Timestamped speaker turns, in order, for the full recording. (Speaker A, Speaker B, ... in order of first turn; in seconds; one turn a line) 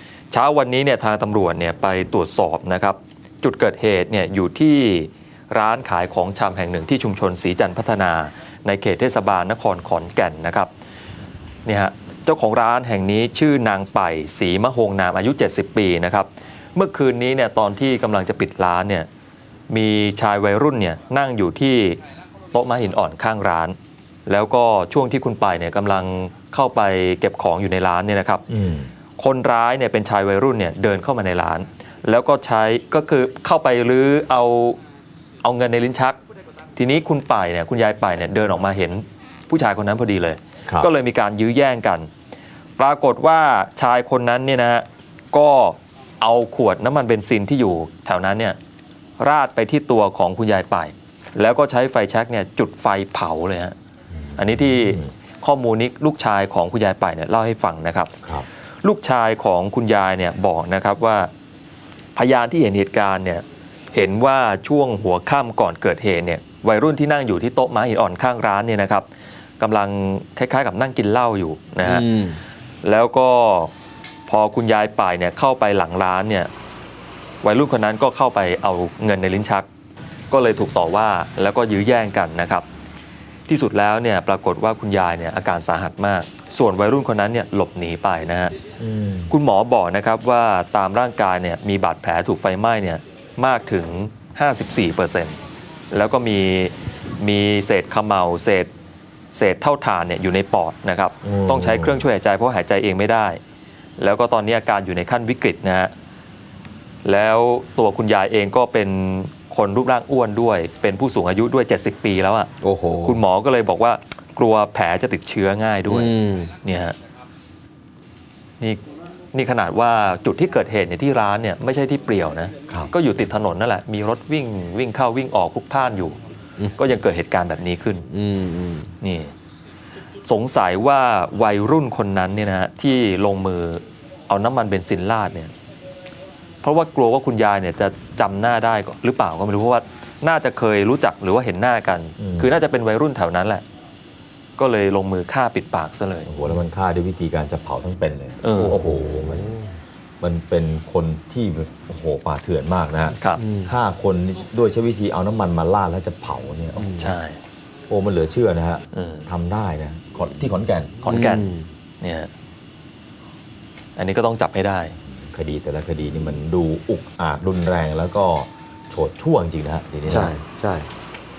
Speaker A: 0.3-10.7
Speaker A: 11.7-19.1
Speaker A: 19.7-22.0
Speaker A: 22.5-28.4
Speaker B: 28.5-28.9
Speaker A: 29.2-34.8
Speaker A: 35.4-36.2
Speaker A: 36.8-42.1
Speaker A: 42.8-48.6
Speaker A: 49.2-53.7
Speaker B: 54.3-55.1
Speaker A: 54.4-58.1
Speaker A: 58.8-61.3
Speaker A: 62.1-69.0
Speaker A: 69.6-72.0
Speaker C: 71.8-72.4
Speaker A: 72.8-73.7
Speaker A: 74.3-76.5
Speaker A: 77.4-79.7
Speaker A: 80.3-82.6
Speaker A: 83.5-88.5
Speaker B: 88.8-89.3
Speaker A: 89.3-95.4
Speaker A: 95.9-98.7
Speaker A: 99.3-103.4
Speaker B: 101.2-102.0
Speaker A: 104.0-105.9
Speaker A: 107.0-112.5
Speaker C: 112.6-113.2
Speaker A: 113.0-117.0
Speaker C: 115.9-116.5
Speaker A: 119.3-126.2
Speaker A: 126.8-128.1
Speaker C: 128.1-128.9
Speaker A: 129.0-129.3
Speaker A: 130.2-135.5
Speaker A: 136.6-143.6
Speaker B: 142.2-142.5
Speaker A: 144.6-146.3
Speaker B: 146.2-149.6
Speaker A: 148.4-148.8
Speaker C: 149.2-149.6
Speaker B: 150.2-157.0
Speaker C: 153.4-153.7
Speaker C: 156.8-157.1
Speaker A: 157.0-157.4
Speaker B: 157.9-161.0
Speaker A: 158.9-159.3
Speaker A: 161.0-161.5
Speaker C: 161.1-161.7
Speaker A: 162.0-162.3
Speaker A: 163.9-164.9
Speaker B: 165.1-170.3
Speaker C: 170.1-170.9